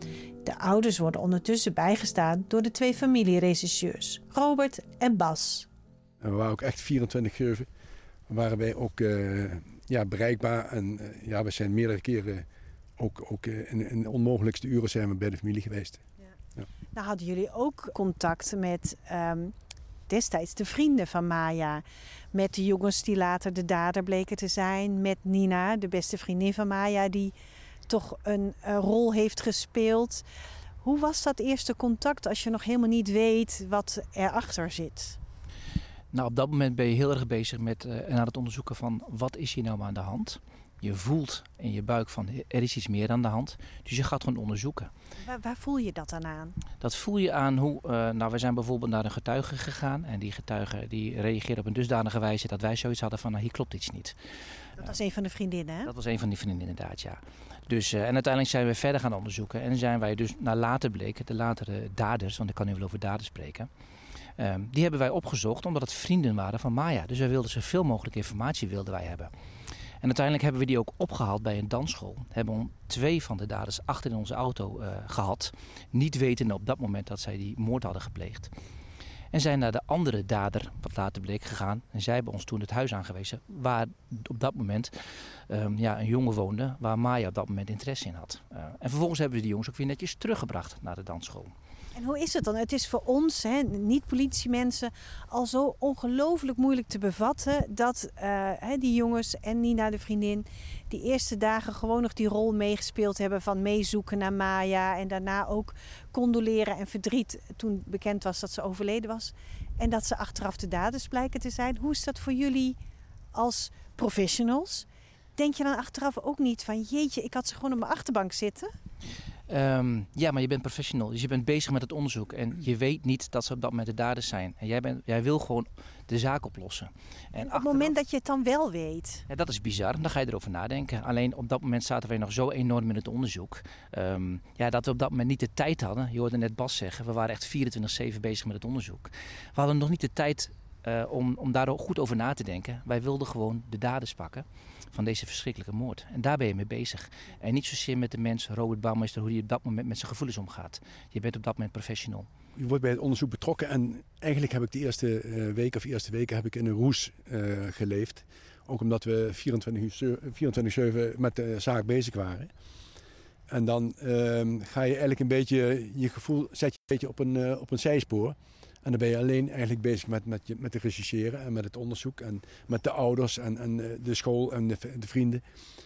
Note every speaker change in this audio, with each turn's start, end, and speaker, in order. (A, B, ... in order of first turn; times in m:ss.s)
0:00.4-0:05.7 A
0:06.2-0:07.7 B
0:08.3-0:12.5 B
0:13.0-0:16.0 B
0:16.9-0:19.5 A
0:20.1-0:27.3 A
0:27.9-0:30.2 A
0:30.8-0:35.2 A
0:36.1-0:44.9 C
0:45.2-0:46.6 A
0:46.8-0:54.1 C
0:54.8-0:55.9 A
0:55.8-1:03.7 C
1:04.4-1:09.3 C
1:10.0-1:18.5 C
1:19.3-1:24.9 C
1:25.5-1:31.5 C
1:31.9-1:52.8 A
1:53.3-1:58.7 A
1:59.5-2:07.9 C
2:07.4-2:09.2 A
2:09.3-2:32.3 C
2:32.6-2:42.5 B
2:43.5-2:55.4 B